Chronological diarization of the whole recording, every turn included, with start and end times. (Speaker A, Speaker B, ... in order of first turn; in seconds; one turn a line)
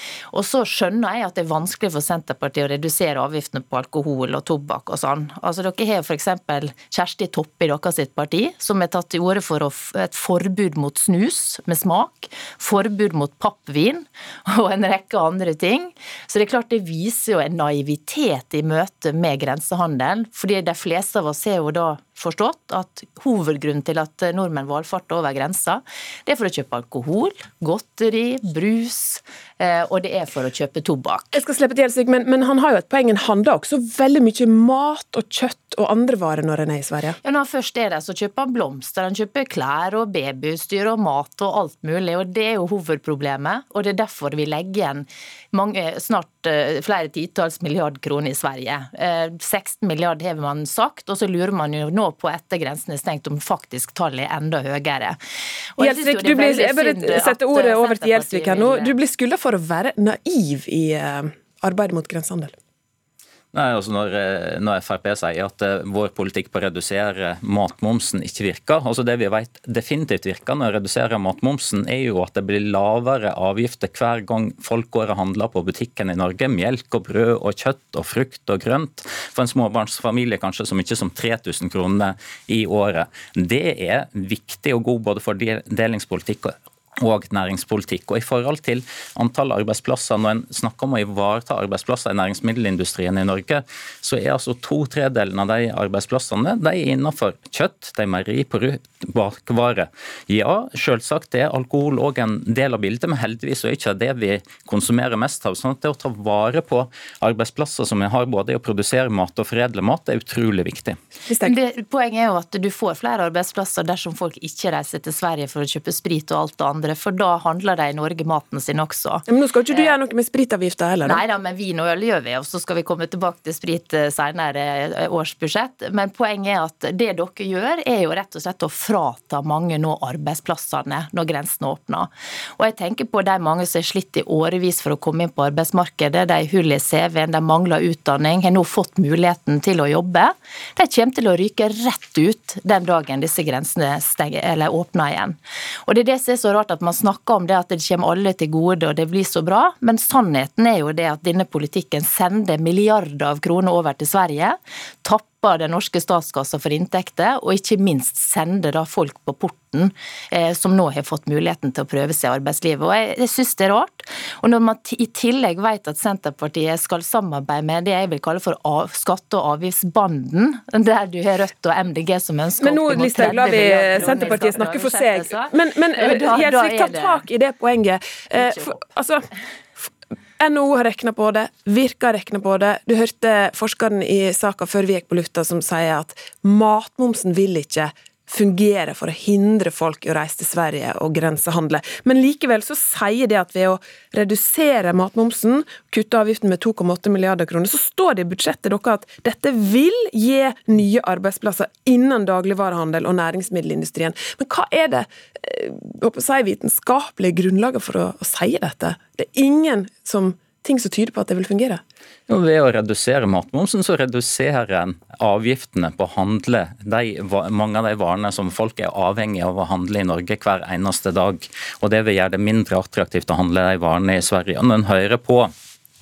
Speaker A: 0.3-31.4
Speaker B: 31.3-37.2
Speaker A: 37.2-55.2
Speaker A: 55.8-58.9
Speaker B: 55.8-62.5
Speaker C: 63.5-111.0
Speaker B: 111.3-111.5
Speaker A: 111.4-119.9
Speaker B: 119.3-121.2
Speaker A: 121.0-177.2
Speaker B: 172.6-179.3
Speaker A: 178.4-178.7
Speaker B: 179.8-211.8
Speaker C: 212.3-225.5